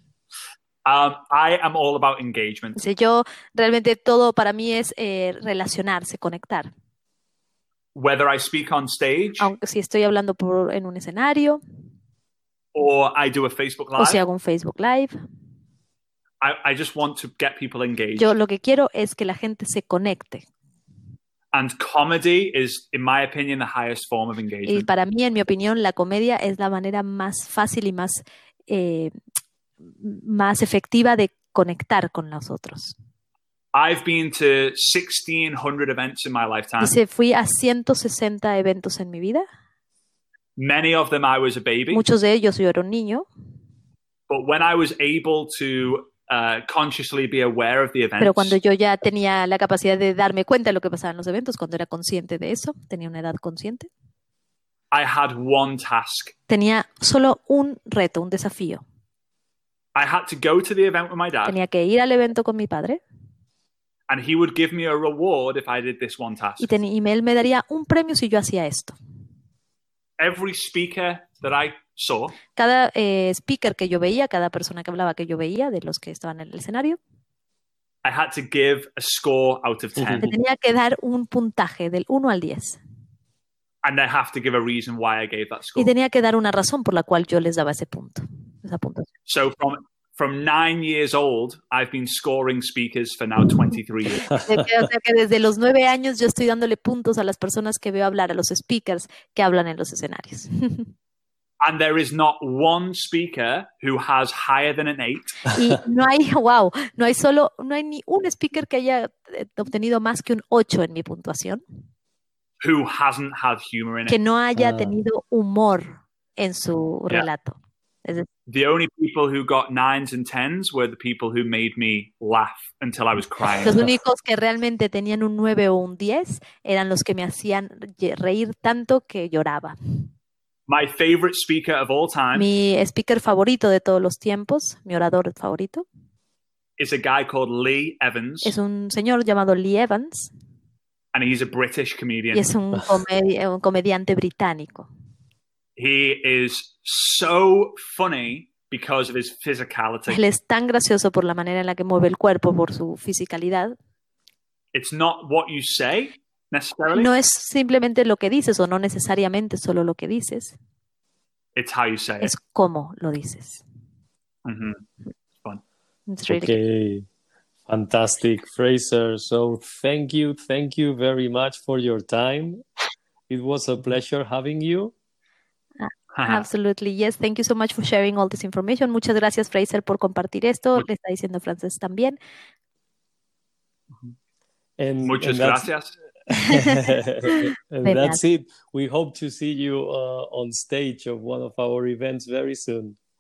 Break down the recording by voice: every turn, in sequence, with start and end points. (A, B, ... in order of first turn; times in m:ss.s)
0:00.8-0:02.8 A
0:02.8-0:06.7 B
0:08.0-0:09.5 A
0:09.4-0:11.6 B
0:12.7-0:14.2 A
0:14.0-0:15.1 B
0:16.4-0:18.3 A
0:18.2-0:20.4 B
0:21.5-0:24.9 A
0:24.7-0:29.1 B
0:29.9-0:33.0 B
0:33.7-0:36.9 A
0:36.8-0:39.5 B
0:40.6-0:42.0 A
0:41.9-0:43.3 B
0:44.3-0:48.6 A
0:48.2-0:53.9 B
0:54.9-0:56.3 A
0:56.5-0:58.8 B
1:00.0-1:01.6 A
1:01.5-1:03.0 B
1:04.1-1:06.7 A
1:06.6-1:09.0 B
1:10.2-1:12.4 A
1:12.6-1:17.0 B
1:18.0-1:20.3 A
1:20.0-1:20.2 C
1:20.2-1:22.8 B
1:23.8-1:25.9 A
1:25.8-1:29.1 B
1:29.3-1:34.4 A
1:34.3-1:34.6 C
1:34.4-1:40.9 B
1:41.6-1:45.4 A
1:45.5-1:51.6 B
1:52.6-1:54.2 A
1:54.1-1:58.3 B
1:54.6-1:55.0 C
1:58.5-2:03.9 A
2:03.6-2:09.8 B
2:10.7-2:12.5 A
2:12.4-2:15.8 B
2:16.8-2:18.6 A
2:18.4-2:20.3 B
2:21.1-2:22.5 A
2:22.3-2:24.9 B
2:25.8-2:30.2 A
2:30.1-2:33.8 B
2:34.7-2:37.1 A
2:36.9-2:40.6 B
2:41.6-2:42.3 A
2:42.2-2:43.6 B
2:44.4-2:44.8 A
2:46.1-2:46.6 B
2:46.3-2:47.1 C
2:47.7-2:52.6 C
2:53.3-2:54.9 C
2:55.8-3:02.2 B
2:56.1-2:56.5 A
3:04.8-3:05.7 C
3:05.0-3:05.9 A
3:06.3-3:08.2 B
3:06.3-3:13.0 C